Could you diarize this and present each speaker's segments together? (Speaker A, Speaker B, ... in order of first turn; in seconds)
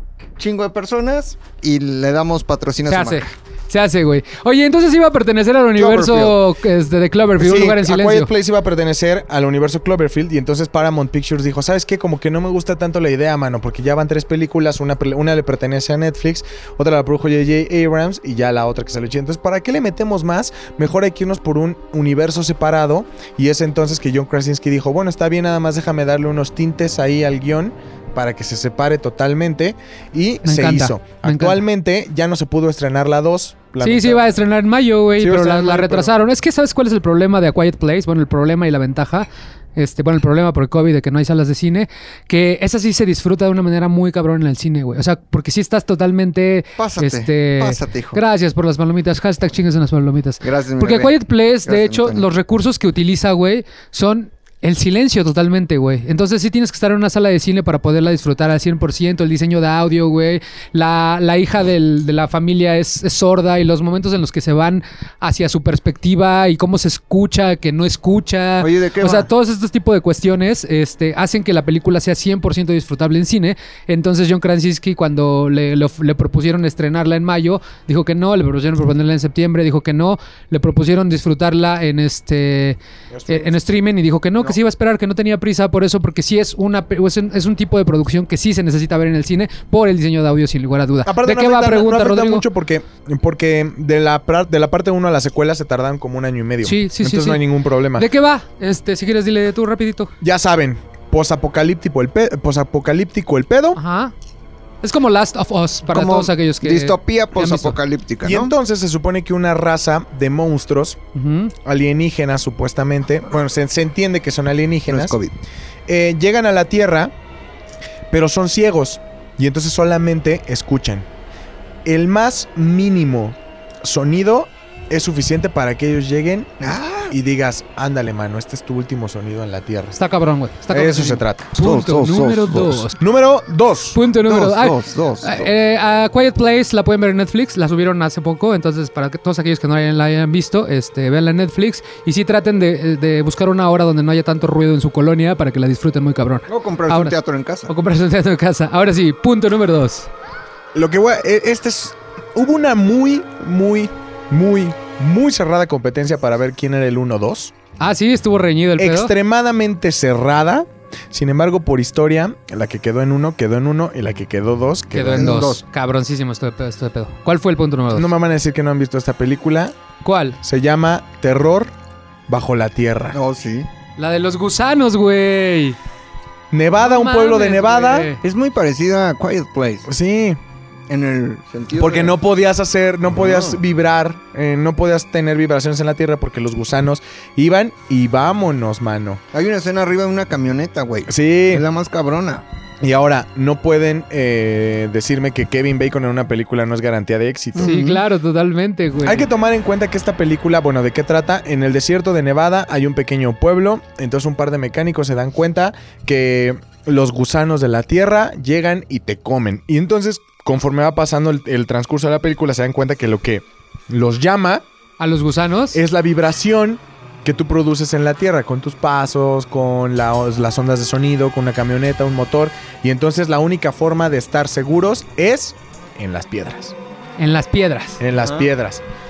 Speaker A: 0.4-3.3, 5.8-6.4, 46.8-48.2, 50.4-52.3, 68.6-69.3, 105.9-108.5, 114.9-115.3, 126.6-127.2, 131.6-132.9, 134.2-135.5, 146.5-147.7, 165.1-165.6, 173.1-173.7, 178.2-179.9, 180.9-182.2, 183.1-183.6, 189.3-192.4, 197.6-198.0
Speaker B: 2.9-8.3, 30.4-31.6, 33.8-92.5, 96.6-100.1, 103.8-104.1, 104.8-107.8, 111.2-111.5, 130.0-133.0, 133.9-147.2, 147.7-150.1, 157.8-159.1, 164.9-168.1, 170.0-170.4, 174.0-175.8, 176.8-178.2, 197.6-199.3, 215.0-215.8, 227.2-228.0
Speaker C: 7.4-34.2, 35.2-36.1, 83.1-83.6, 91.0-98.1, 100.2-103.8, 108.2-111.0, 111.6-115.2, 115.9-117.1, 118.1-121.1, 121.8-126.6, 127.1-130.0, 130.7-131.5, 133.0-134.0, 150.7-157.5, 158.8-165.5, 167.9-169.8, 170.4-171.7, 172.3-173.2, 176.5-178.1, 179.9-180.4, 181.8-189.2, 191.1-191.7, 192.8-197.8, 199.0-214.7, 215.7-226.8, 228.0-228.8